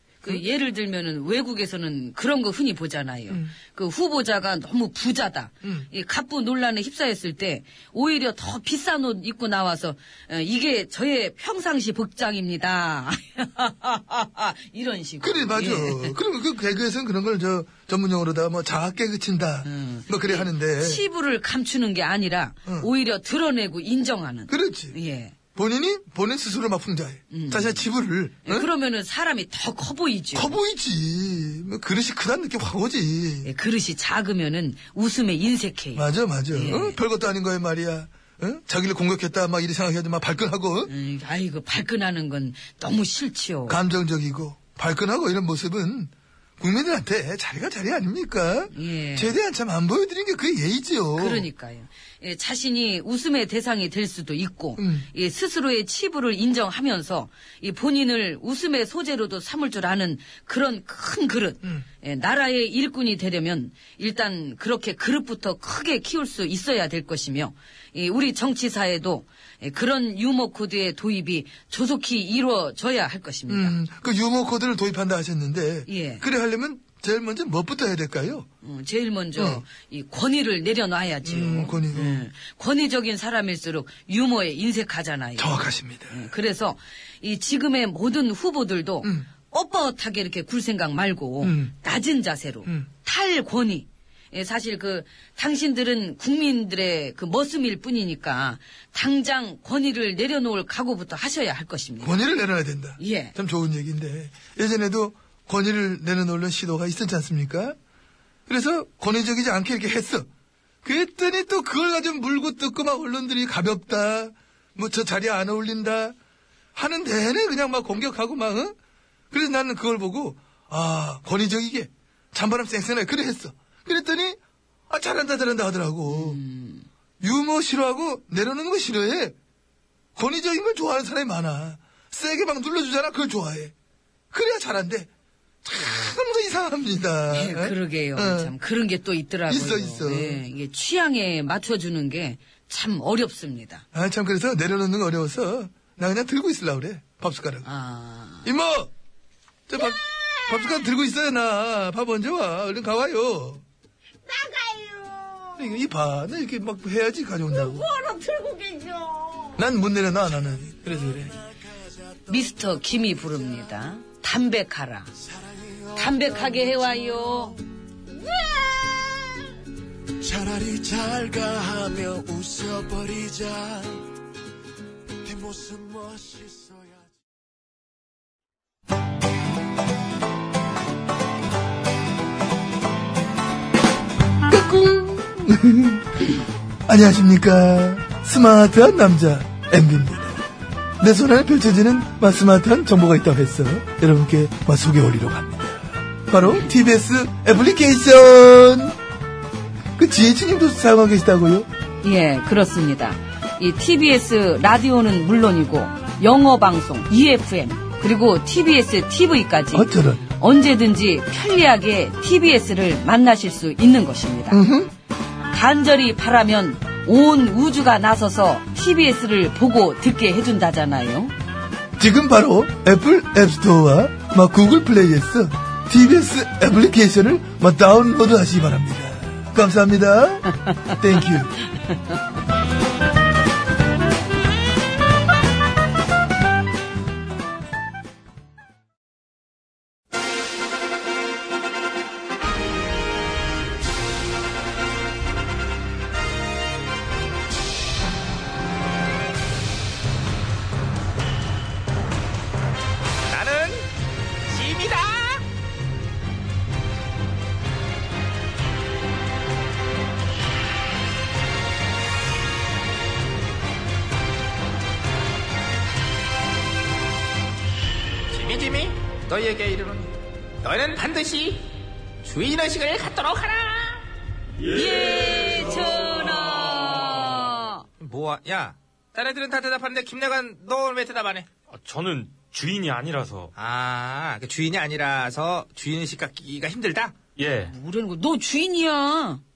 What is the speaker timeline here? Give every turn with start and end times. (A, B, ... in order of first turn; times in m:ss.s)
0:00.2-0:16.2 A
0:05.6-0:05.9 B
0:15.2-0:21.0 B
0:19.6-0:25.4 A
0:24.5-0:25.0 B
0:25.6-0:28.7 B
0:27.3-0:27.8 A
0:28.4-0:30.6 A
0:30.3-0:33.5 B
0:33.4-0:37.0 A
0:36.0-0:40.9 B
0:40.9-0:43.8 A
0:43.7-0:51.5 B
0:48.7-0:49.4 A
0:51.2-1:13.8 A
0:54.8-0:55.1 B
1:13.5-1:18.5 B
1:15.9-1:16.2 A
1:18.6-1:42.2 A
1:19.4-1:19.6 B
1:21.2-1:22.3 B
1:25.4-1:26.3 B
1:31.4-1:31.7 B
1:42.0-1:47.8 B
1:43.0-1:43.4 A
1:48.5-1:50.3 B
1:50.8-1:56.2 B
1:56.8-1:58.8 B
1:59.3-2:06.4 B
2:06.1-2:06.9 A
2:07.2-2:09.4 B
2:10.2-2:13.7 B
2:14.3-2:15.1 B
2:15.6-2:18.5 B
2:17.3-2:23.8 A
2:19.5-2:20.4 B
2:23.9-2:27.7 B
2:27.6-2:28.5 A
2:28.4-2:28.9 B
2:29.7-2:33.6 B
2:34.3-2:35.5 A
2:35.6-2:37.9 B
2:37.9-2:39.5 A
2:39.6-2:41.4 B
2:42.3-2:45.1 A
2:45.9-2:47.6 A
2:50.2-2:54.1 C
2:55.2-2:57.0 C
3:04.5-3:06.2 B
3:06.9-3:10.4 B
3:11.0-3:19.0 B
3:20.0-3:21.7 B
3:22.0-3:34.6 A
3:29.7-3:30.2 B
3:34.5-3:34.9 B
3:35.5-3:41.3 A
3:42.0-3:51.6 B
4:13.3-4:13.9 D
4:14.5-4:15.4 D
4:28.3-4:31.7 D
4:32.2-4:34.0 D
4:34.7-4:37.9 A
4:38.0-4:41.5 D
4:41.7-4:43.5 E
4:43.6-4:47.2 D
4:47.4-4:47.7 E
4:47.7-4:49.4 A